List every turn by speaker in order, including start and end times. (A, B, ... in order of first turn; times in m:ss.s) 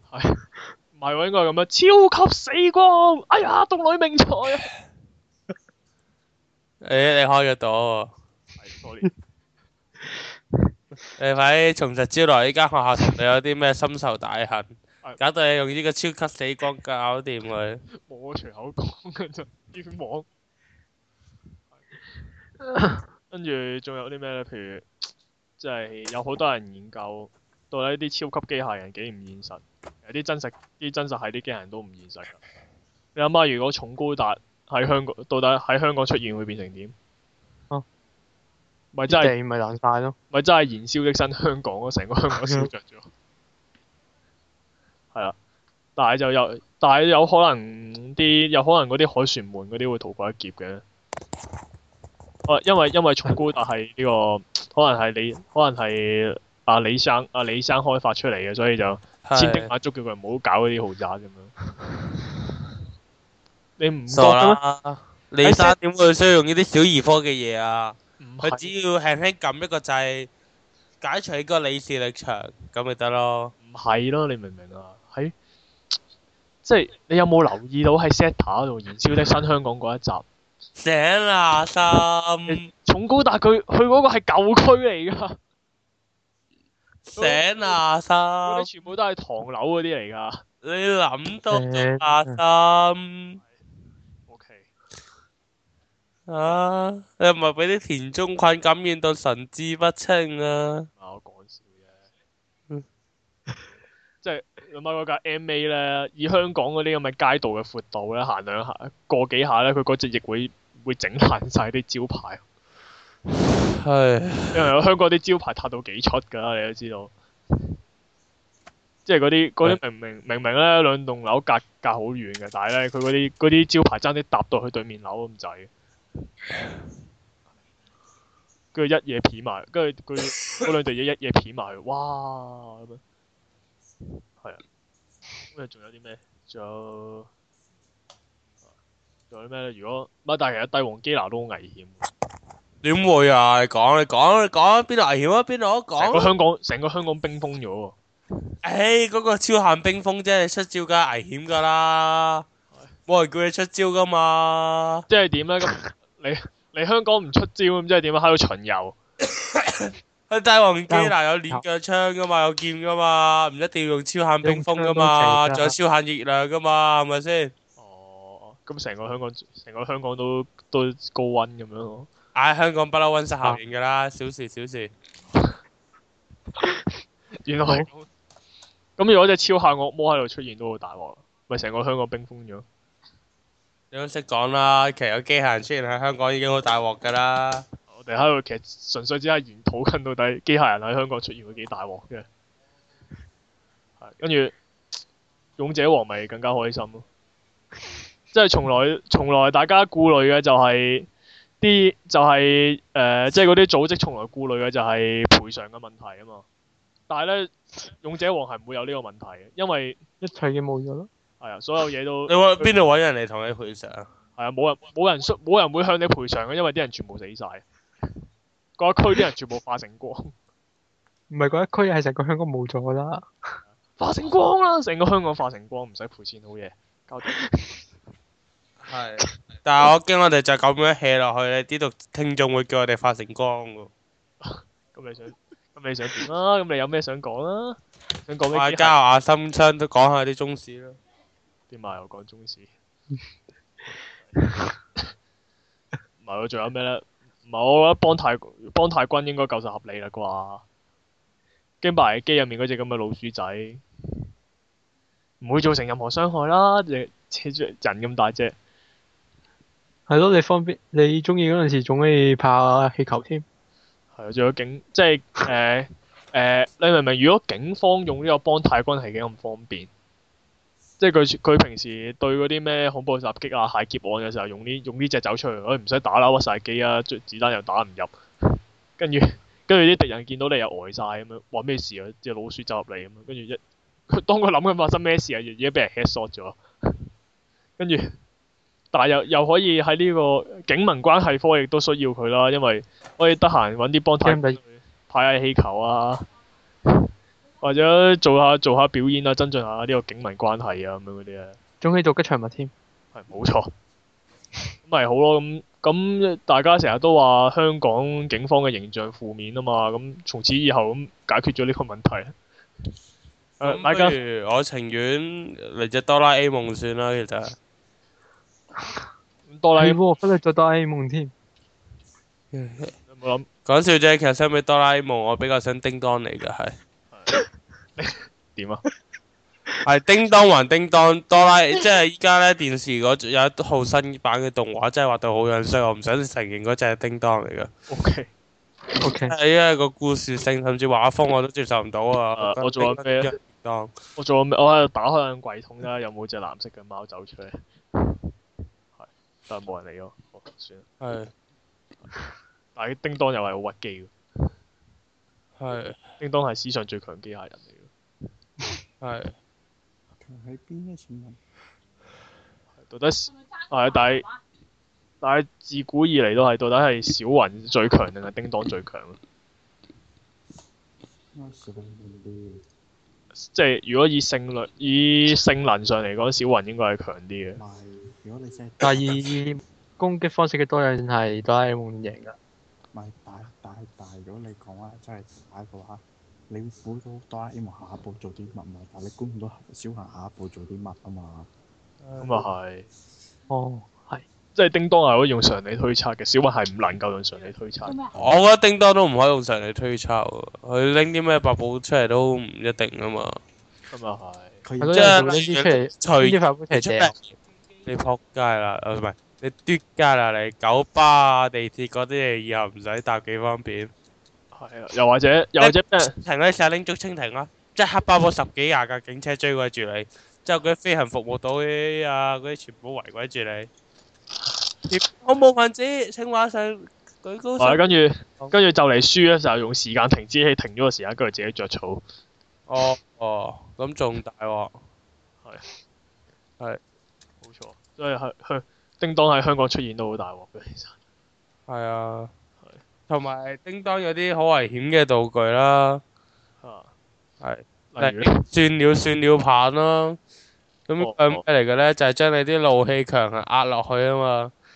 0:00.1-0:04.7 A
0:06.8-0:08.1 B
0:08.6-0:09.1 A
0:11.2-0:17.8 B
0:18.0-0:20.2 A
0:22.7-0:23.0 C
0:23.3-0:24.9 A
0:25.6-0:32.4 A
0:33.1-0:36.9 A
0:38.9-0:39.3 A
0:39.1-0:40.2 C
0:40.3-0:43.1 A
0:46.0-0:50.8 A
0:52.4-1:01.5 A
0:59.2-0:59.7 B
1:03.8-1:04.6 A
1:04.1-1:10.3 B
1:05.4-1:05.7 A
1:08.2-1:08.7 A
1:11.0-1:13.5 B
1:13.6-1:15.3 A
1:16.6-1:20.2 A
1:20.8-1:22.6 B
1:22.5-1:25.4 A
1:27.1-1:28.7 B
1:27.1-1:27.4 A
1:28.4-1:30.4 A
1:30.6-1:33.4 B
1:31.5-1:32.4 C
1:34.3-1:34.7 A
1:36.3-1:40.9 B
1:41.0-1:42.0 A
1:44.2-1:52.4 A
1:53.7-1:54.6 B
1:54.5-1:57.1 A
1:59.0-2:05.7 A
2:08.7-2:13.0 A
2:15.5-2:17.3 A
2:19.3-2:22.0 A
2:22.8-2:26.3 B
2:26.0-2:28.0 A
2:28.6-2:32.4 B
2:33.1-2:35.0 B
2:35.1-2:39.0 A
2:39.3-2:47.5 B
2:40.9-2:41.6 C
2:44.4-2:45.7 C
2:47.8-2:52.1 A
2:52.3-2:54.9 B
2:57.4-2:58.1 A
2:59.0-3:02.6 A
3:03.9-3:07.7 B
3:07.9-3:12.2 A
3:14.0-3:14.6 A
3:15.6-3:17.0 A
3:18.3-3:21.1 A
3:21.6-3:26.4 A
3:27.1-3:30.0 A
3:30.2-3:31.1 C
3:31.4-3:32.7 A
3:32.3-3:34.1 B
3:34.4-3:37.6 A
3:38.8-3:40.3 A
3:41.3-3:43.6 C
3:44.0-3:47.4 A
3:48.8-3:53.9 B
3:54.4-3:58.9 A
3:58.5-4:01.0 B
4:01.7-4:02.7 A
4:06.2-4:10.6 A
4:11.8-4:13.8 A
4:15.4-4:18.6 A
4:20.1-4:23.4 C
4:24.1-4:29.9 A
4:31.0-4:46.6 A
4:47.8-4:48.1 A
4:48.9-4:56.2 A
4:54.2-4:54.6 C
4:57.6-5:01.6 A
5:01.8-5:02.7 C
5:03.1-5:03.7 A
5:04.8-5:12.3 A
5:13.6-5:14.2 A
5:13.6-5:17.6 B
5:19.5-5:20.0 A
5:19.8-5:21.3 C
5:22.5-5:22.9 B
5:23.1-5:23.5 A
5:23.6-5:26.8 B
5:27.1-5:27.4 A
5:28.0-5:28.8 A
5:29.8-5:37.7 B
5:37.9-5:38.3 A
5:39.0-5:39.3 C
5:39.2-5:43.9 B
5:42.4-5:43.3 A
5:44.2-5:48.0 A
5:49.0-5:50.9 A
5:51.0-5:51.3 B
5:52.8-5:54.1 A
5:55.6-5:56.0 B
5:56.2-5:57.9 A
5:59.0-5:59.3 B
6:00.2-6:01.4 D
6:02.8-6:04.2 A
6:05.2-6:09.2 A
6:11.3-6:12.6 D
6:13.4-6:17.6 A
6:17.6-6:19.2 D
6:18.8-6:22.4 C
6:22.9-6:31.5 D
6:32.0-6:32.4 B
6:32.2-6:32.9 A
6:33.5-6:34.2 C
6:34.5-6:38.0 A
6:38.1-6:43.4 B
6:43.9-6:44.6 A
6:44.6-6:45.4 D
6:44.8-6:47.1 C
6:44.9-6:47.3 B
6:47.8-6:53.9 B
6:54.5-6:56.2 A
6:55.6-7:03.7 B
7:04.9-7:07.8 B
7:07.6-7:12.0 A
7:12.7-7:14.7 B
7:17.4-7:20.9 A
7:21.7-7:22.3 B
7:23.1-7:26.0 B
7:26.6-7:26.9 A
7:27.4-7:30.2 B
7:27.9-7:28.4 A
7:30.9-7:34.5 B
7:31.0-7:31.4 A